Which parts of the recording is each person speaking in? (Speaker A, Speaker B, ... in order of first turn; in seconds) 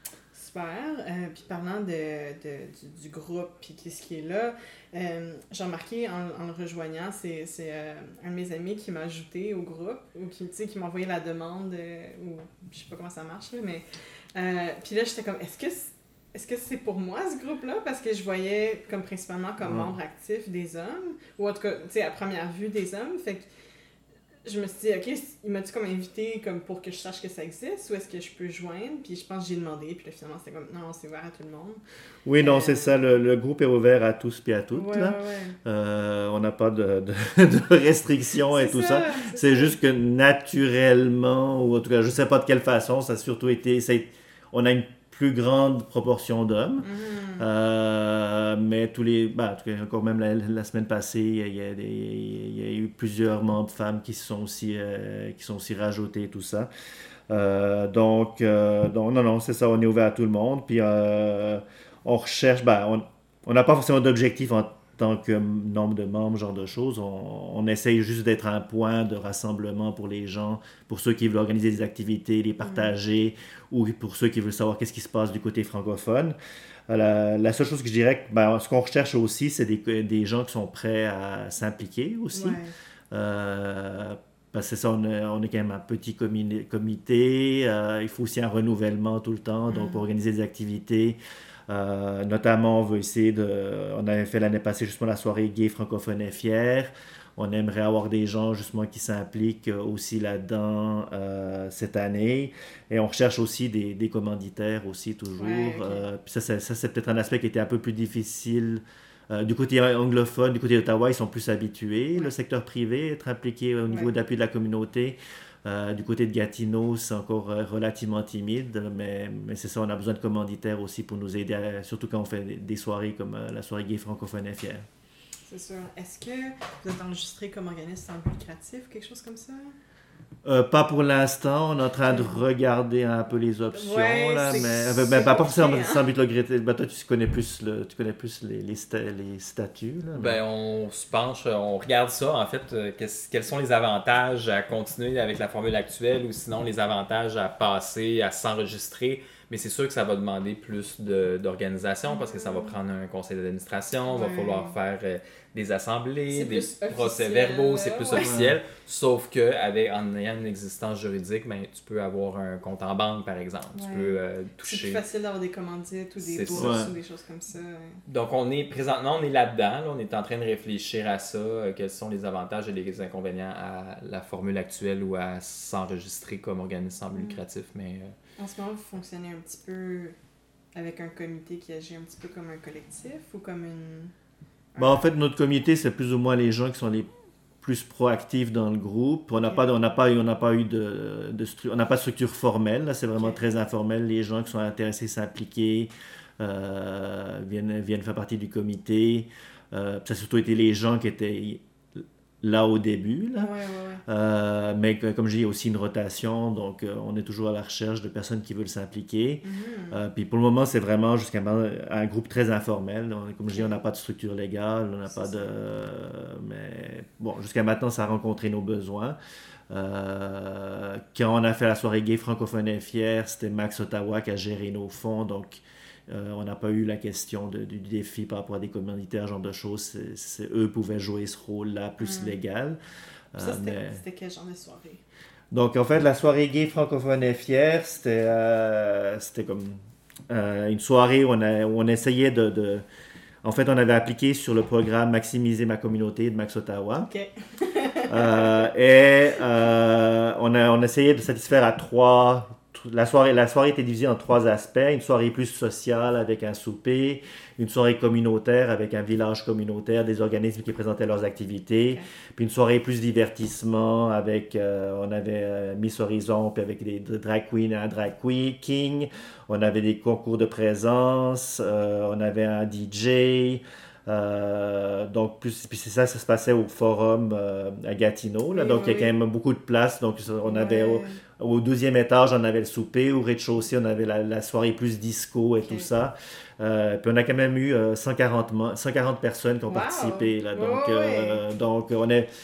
Speaker A: 0.3-23.5, 24.4-31.8, 32.4-33.0, 34.7-35.6, 38.5-39.8, 46.8-47.5, 72.6-72.9, 82.3-82.7, 89.7-90.0, 105.4-106.0, 125.5-129.8, 132.1-132.4, 133.7-136.1, 152.1-152.7, 154.1-154.8, 156.3-158.3, 163.7-168.0, 177.2-177.4, 178.4-180.2, 180.8-184.1, 184.7-185.0, 203.4-204.0, 209.4-210.0, 213.5-213.8, 215.1-215.5, 232.0-232.4, 233.4-235.0, 247.1-248.7, 278.5-279.1, 280.4-281.2, 285.6-285.9, 289.7-291.4
Speaker B: 19.6-19.9, 32.3-56.7, 57.3-76.4, 76.9-82.6, 83.1-91.2, 91.7-124.9, 130.4-140.4, 158.2-158.6, 166.5-166.9, 184.8-187.1, 187.6-203.5, 204.1-219.2, 219.7-232.8, 233.3-234.0, 235.5-242.8, 243.4-247.1, 248.1-292.3
Speaker C: 140.2-165.0, 166.2-166.8, 168.1-178.1